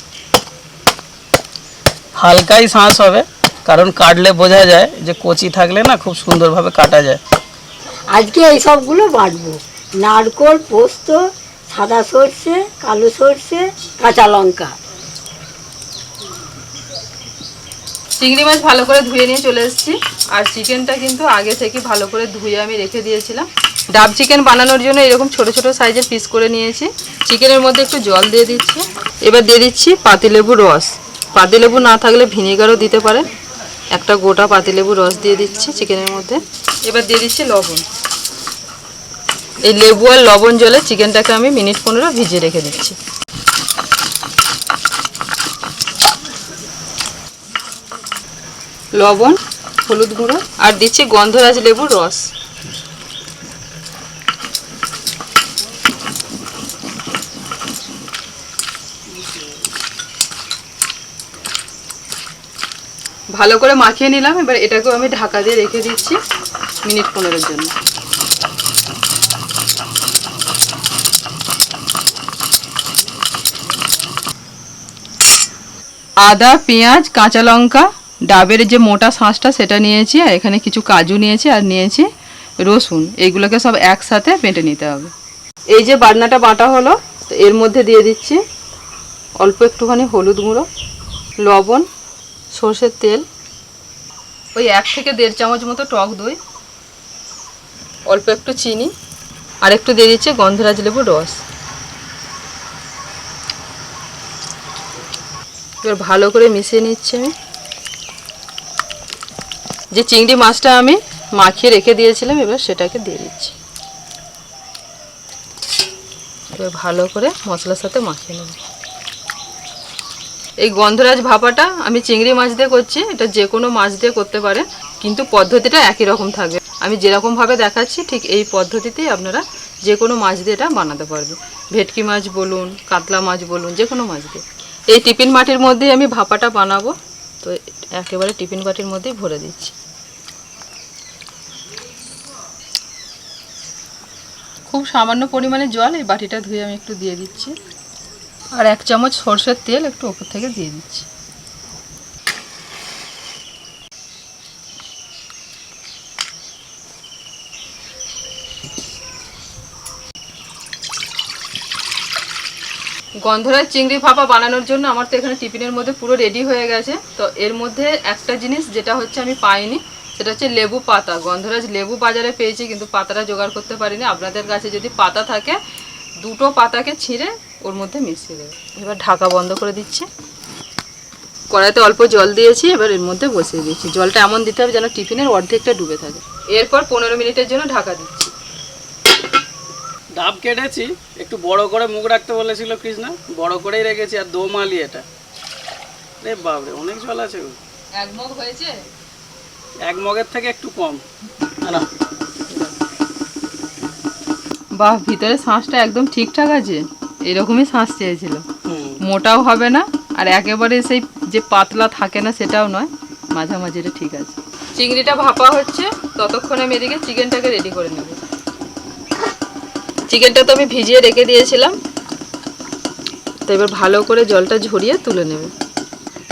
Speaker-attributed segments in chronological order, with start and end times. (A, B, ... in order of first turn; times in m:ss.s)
0:02.2-0:07.2 A
0:08.1-0:14.7 B
0:18.2-0:33.3 C
0:33.9-0:37.8 C
0:39.6-0:43.0 C
0:48.9-0:52.3 C
1:03.4-1:06.2 C
1:06.8-1:07.7 C
1:16.2-1:22.1 C
1:22.6-1:25.1 C
1:25.7-1:28.4 C
1:29.4-1:30.7 C
1:31.4-1:31.8 C
1:32.5-1:33.2 C
1:34.5-1:36.4 C
1:38.1-1:38.9 C
1:39.6-1:41.4 C
1:45.8-1:47.3 C
1:49.9-1:53.5 C
1:56.5-1:58.6 C
2:00.6-2:19.8 C
2:24.7-2:27.5 C
2:28.6-2:31.1 C
2:43.2-2:55.6 C
2:56.2-3:00.1 C
3:01.5-3:08.3 C
3:10.2-3:15.0 A
3:16.2-3:17.6 A
3:18.0-3:18.8 C
3:19.8-3:21.0 A
3:22.5-3:22.7 C
3:24.8-3:28.4 C
3:28.6-3:29.0 A
3:29.0-3:38.2 C
3:40.1-3:41.8 C
3:43.4-3:45.5 C